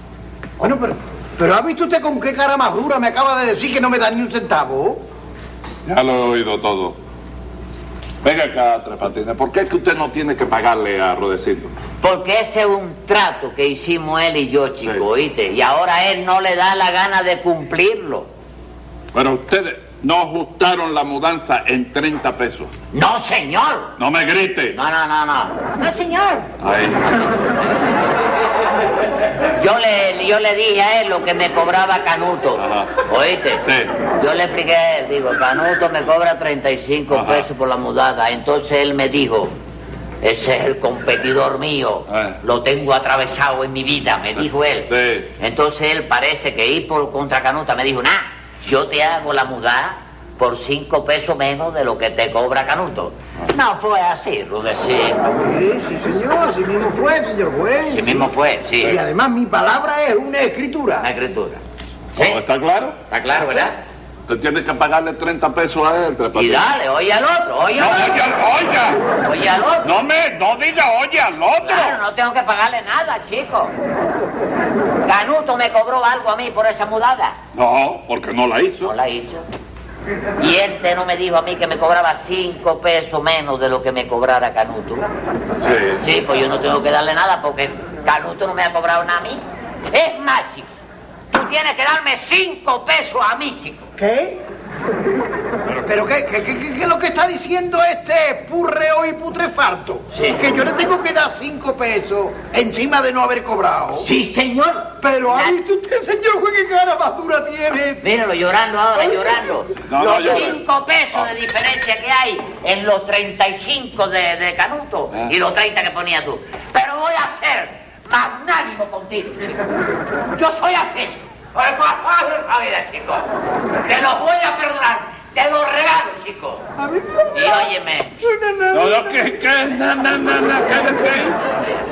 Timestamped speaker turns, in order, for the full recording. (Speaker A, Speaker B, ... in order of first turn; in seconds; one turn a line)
Speaker A: 0.6-5.0
Speaker B: 5.8-7.0
Speaker B: 8.2-11.8
Speaker C: 12.0-18.3
Speaker B: 19.1-22.7
Speaker C: 22.9-23.9
Speaker B: 24.0-24.8
Speaker C: 24.7-26.5
Speaker B: 26.6-27.2
Speaker C: 29.6-33.6
Speaker B: 32.6-32.9
Speaker B: 33.6-33.9
Speaker C: 34.2-39.5
Speaker B: 37.1-37.5
Speaker C: 40.2-55.3
Speaker B: 42.1-42.4
Speaker B: 44.9-45.3
Speaker A: 55.4-61.1
Speaker C: 57.9-59.0
Speaker C: 61.0-61.6
Speaker C: 62.2-62.4
Speaker B: 62.2-63.0
Speaker C: 63.1-63.8
Speaker B: 64.3-66.7
Speaker C: 66.3-68.2
Speaker B: 67.8-69.0
Speaker C: 69.2-70.0
Speaker B: 69.8-72.0
Speaker C: 71.6-73.7
Speaker C: 75.0-77.4
Speaker B: 77.5-78.9
Speaker C: 78.8-79.5
Speaker C: 80.4-85.1
Speaker B: 85.6-86.0
Speaker C: 86.0-90.7
Speaker C: 91.3-93.9
Speaker A: 94.0-94.4
Speaker A: 95.8-104.1
Speaker C: 100.1-100.4
Speaker C: 104.0-105.6
Speaker A: 105.0-108.0
Speaker C: 108.0-119.7
Speaker B: 109.9-110.6
Speaker C: 120.3-123.2
Speaker C: 123.8-126.7
Speaker A: 126.8-127.7
Speaker C: 127.3-128.2
Speaker A: 128.2-129.2
Speaker B: 128.7-131.7